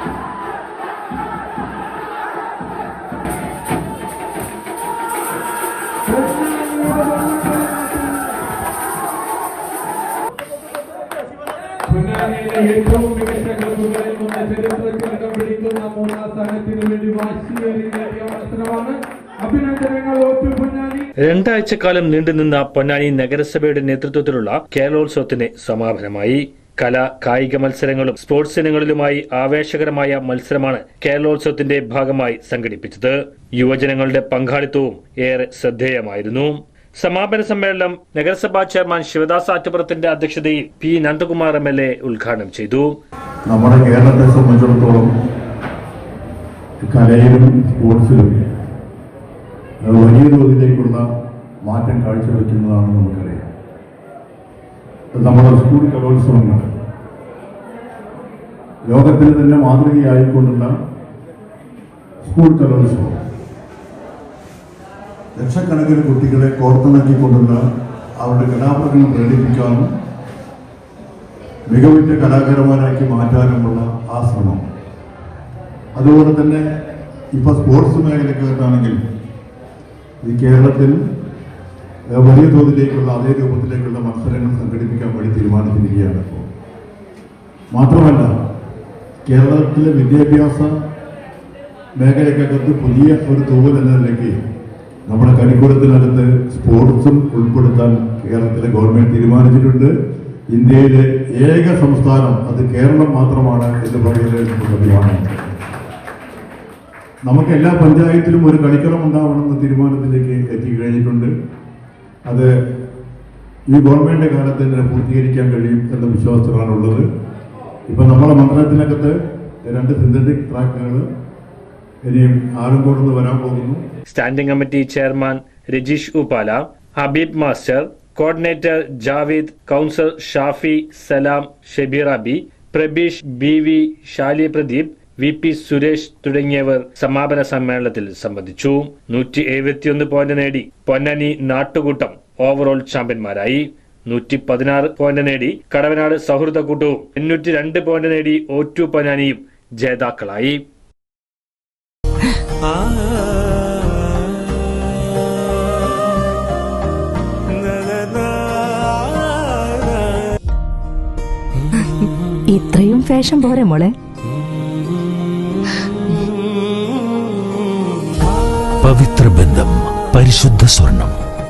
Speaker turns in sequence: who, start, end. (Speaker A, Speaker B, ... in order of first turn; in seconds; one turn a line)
Speaker A: 6.1-8.1
Speaker A: 11.9-18.9
Speaker A: 19.4-21.0
Speaker B: 21.2-42.9
Speaker C: 43.5-45.1
Speaker C: 46.9-48.4
Speaker C: 49.8-51.0
Speaker C: 51.6-53.4
Speaker C: 55.2-56.7
Speaker C: 58.9-60.7
Speaker C: 62.2-63.2
Speaker C: 65.4-67.6
Speaker C: 68.2-69.9
Speaker C: 71.7-74.6
Speaker C: 76.0-76.6
Speaker C: 77.4-79.0
Speaker C: 80.2-81.0
Speaker C: 82.1-86.5
Speaker C: 87.7-88.3
Speaker C: 89.2-90.7
Speaker C: 92.0-94.3
Speaker C: 95.1-99.9
Speaker C: 100.5-105.6
Speaker C: 107.3-111.3
Speaker C: 113.7-117.0
Speaker C: 117.9-119.1
Speaker C: 119.7-121.0
Speaker C: 122.0-123.8
Speaker B: 124.1-150.6
Speaker D: 157.6-158.3
Speaker E: 161.8-163.9
Speaker D: 168.8-171.2